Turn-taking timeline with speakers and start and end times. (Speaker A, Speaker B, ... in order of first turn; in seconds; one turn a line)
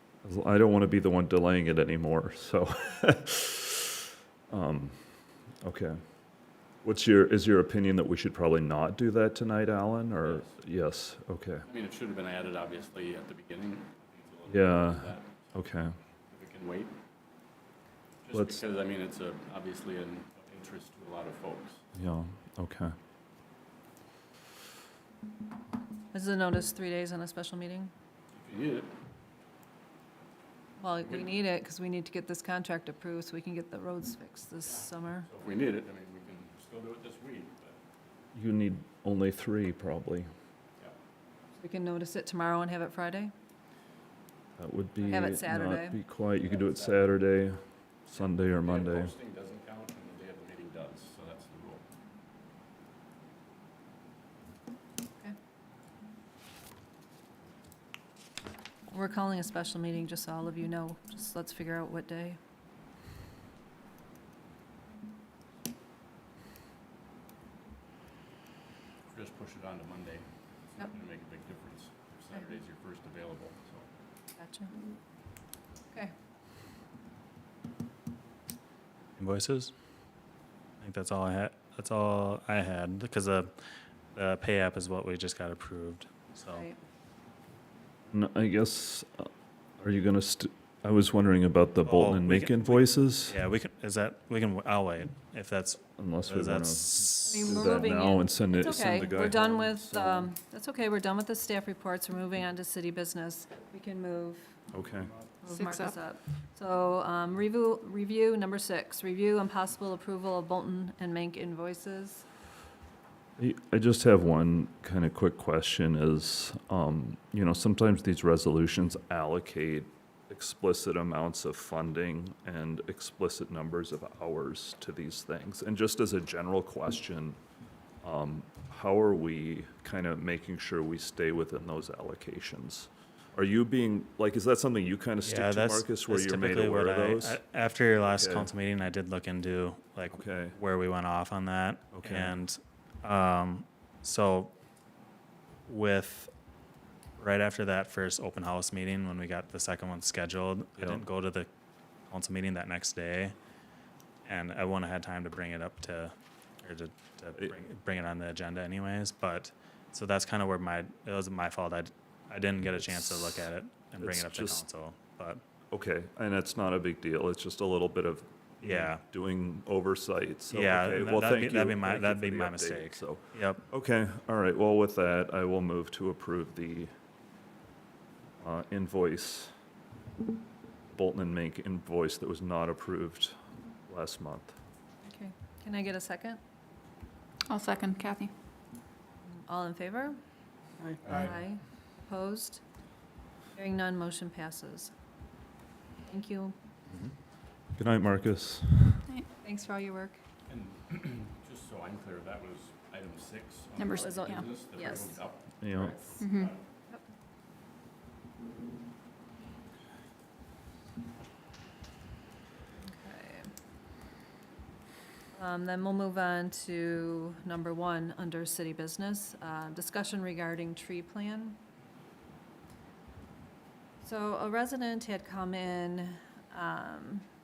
Speaker A: 0.2-3.9
Speaker A: 4.5-6.0
Speaker A: 6.8-11.6
Speaker B: 10.2-10.5
Speaker B: 11.7-15.5
Speaker A: 14.5-15.9
Speaker B: 16.3-16.9
Speaker B: 18.2-21.8
Speaker A: 18.3-18.6
Speaker A: 21.9-22.9
Speaker C: 26.1-27.9
Speaker B: 28.3-28.9
Speaker C: 30.8-35.3
Speaker B: 34.6-37.8
Speaker A: 38.3-40.3
Speaker C: 41.5-43.3
Speaker A: 44.6-49.1
Speaker C: 45.0-46.0
Speaker B: 46.3-47.1
Speaker B: 48.1-51.8
Speaker C: 58.9-62.4
Speaker B: 69.1-73.8
Speaker C: 74.3-74.7
Speaker D: 79.2-79.7
Speaker D: 80.8-83.5
Speaker D: 84.1-86.6
Speaker C: 86.5-86.8
Speaker A: 88.1-93.4
Speaker D: 91.8-97.5
Speaker A: 96.0-100.3
Speaker C: 97.2-104.5
Speaker A: 104.7-105.1
Speaker C: 105.4-112.2
Speaker E: 105.4-106.0
Speaker A: 113.4-127.4
Speaker A: 128.0-137.4
Speaker D: 135.2-144.5
Speaker A: 138.0-138.5
Speaker A: 140.1-140.6
Speaker A: 142.0-142.3
Speaker D: 145.7-146.3
Speaker D: 147.2-151.5
Speaker D: 152.1-153.3
Speaker D: 154.2-165.4
Speaker A: 162.8-163.5
Speaker A: 164.0-164.7
Speaker A: 165.7-176.9
Speaker D: 168.6-169.0
Speaker D: 170.5-173.6
Speaker A: 178.4-179.5
Speaker A: 180.9-184.6
Speaker C: 185.0-186.4
Speaker E: 187.5-188.3
Speaker C: 189.2-190.2
Speaker B: 191.0-191.3
Speaker C: 191.1-192.6
Speaker C: 193.5-194.9
Speaker C: 196.0-196.5
Speaker A: 197.8-199.0
Speaker C: 199.4-200.2
Speaker B: 200.5-206.6
Speaker E: 203.8-204.6
Speaker C: 203.9-205.2
Speaker A: 205.6-206.0
Speaker E: 206.2-206.5
Speaker C: 212.8-213.5
Speaker C: 215.3-221.6
Speaker C: 224.0-227.3